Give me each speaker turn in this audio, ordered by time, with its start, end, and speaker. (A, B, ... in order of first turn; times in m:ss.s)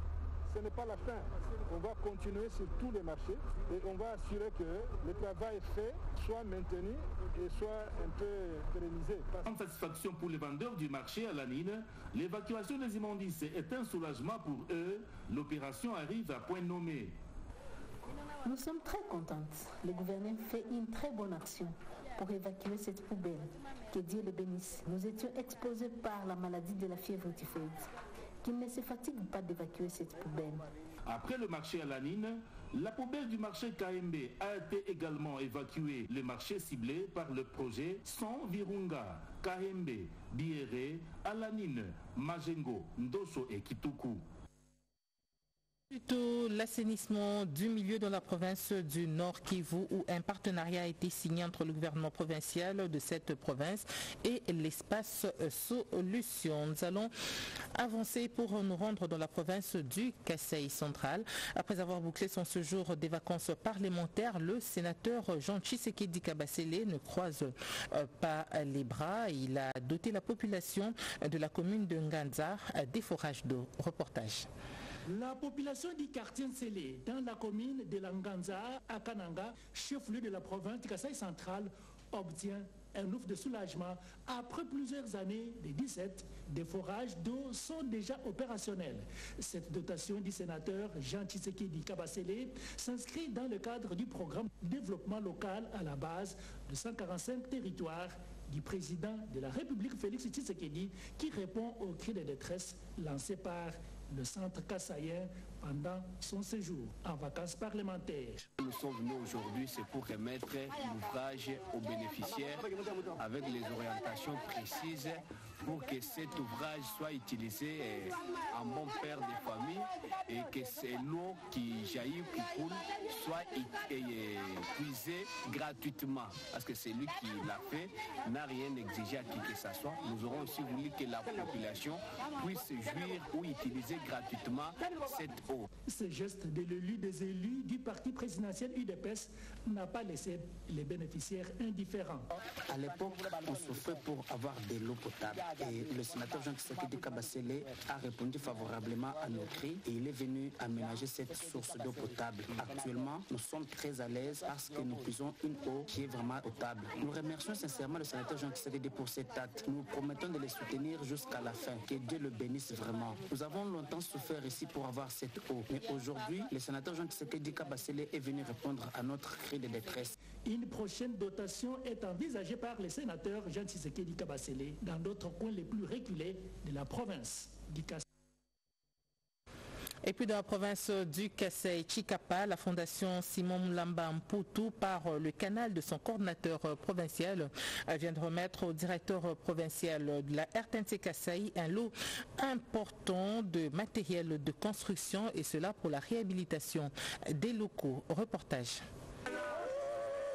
0:00.5-0:09.4 A
0:09.4-0:17.2 B
0:18.4-0:27.8 C
0:28.4-0:30.6 C
0:31.1-0:44.2 B
0:45.9-0:57.1 D
0:57.8-1:14.5 D
1:15.1-1:48.4 E
1:48.6-2:15.7 F
2:15.9-2:22.3 E
2:22.7-2:50.1 G
2:50.5-2:58.0 E
3:00.0-3:18.8 D